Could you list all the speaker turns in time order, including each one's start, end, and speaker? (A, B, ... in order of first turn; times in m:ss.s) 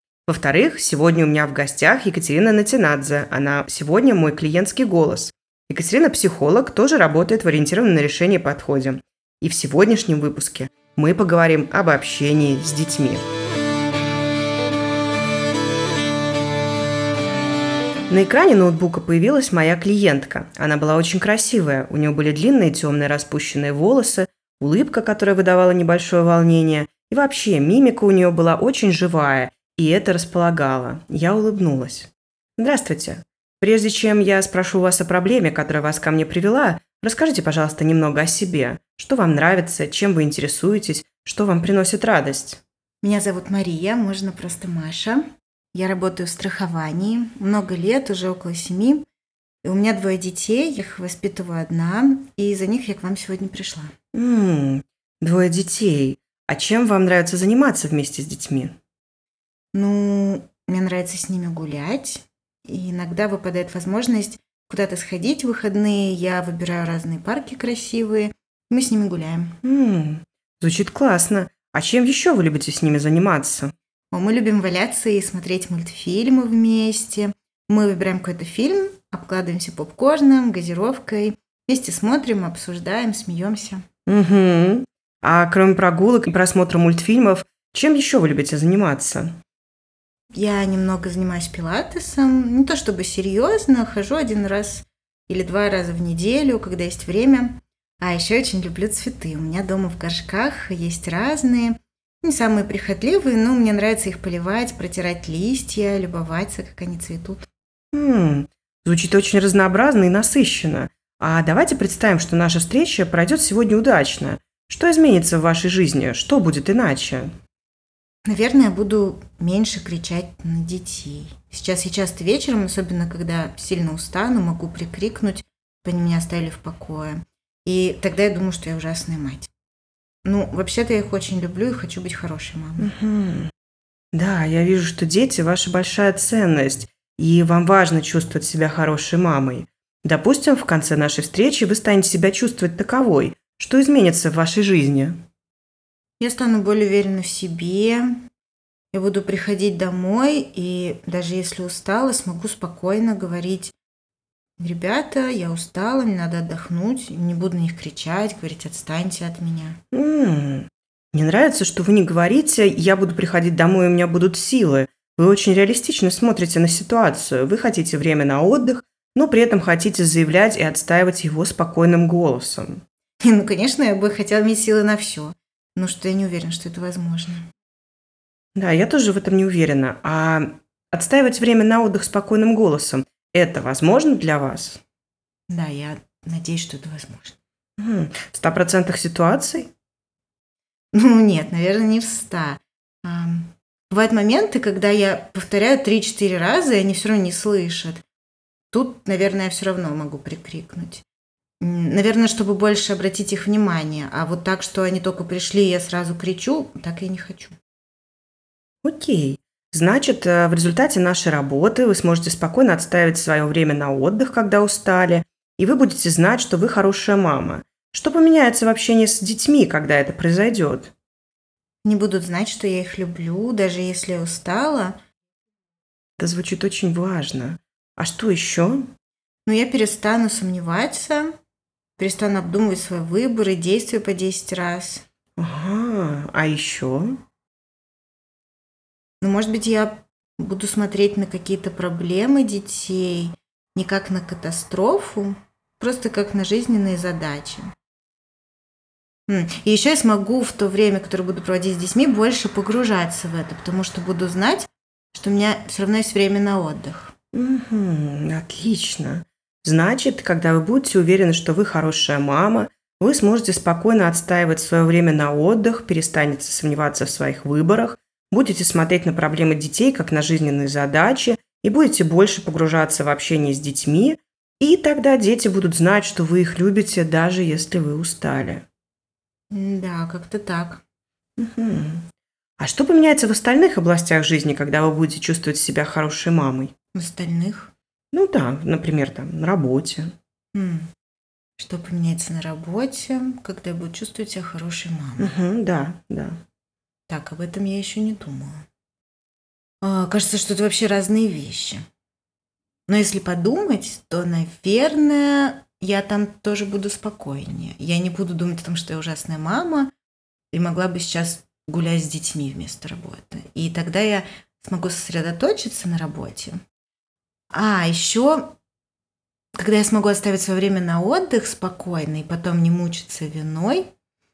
0:00.3-0:13.2 A
0:18.1-0:42.6 A
0:43.0-0:49.0 B
0:49.6-0:53.9 B
0:54.1-0:58.8 A
0:59.7-1:09.6 B
1:09.6-1:13.7 A
1:14.1-1:23.8 B
1:24.0-1:29.4 A
1:30.3-1:47.4 B
1:47.9-1:57.3 A
1:58.2-2:09.5 B
2:10.2-2:12.9 B
2:12.8-2:13.5 A
2:14.1-2:25.2 A
2:26.2-2:28.2 B
2:28.9-2:33.7 B
2:34.6-2:39.8 B
2:39.9-2:52.8 A
2:53.2-2:57.4 B
2:58.5-3:04.8 A
3:05.5-3:07.4 B
3:07.8-3:09.7 A
3:10.9-3:18.0 B
3:18.7-3:21.0 B
3:21.6-3:27.6 B
3:28.8-3:40.9 A
3:41.8-3:45.0 B
3:46.2-3:48.9 A
3:49.4-3:51.3 B
3:52.0-3:55.0 B
3:55.4-3:57.2 A
3:59.2-4:07.7 B
4:09.3-4:17.1 B
4:17.3-4:38.6 A
4:39.5-4:40.8 B
4:41.4-4:42.0 A
4:42.6-4:46.7 A
4:46.9-4:47.7 B
4:48.1-4:50.1 A
4:50.5-4:50.9 B
4:51.6-4:55.3 B
4:55.2-4:56.4 A
4:57.1-4:58.6 B
4:59.8-5:01.8 B
5:02.9-5:09.9 B
5:10.5-5:16.6 B
5:17.5-5:18.5 B
5:19.6-5:23.9 B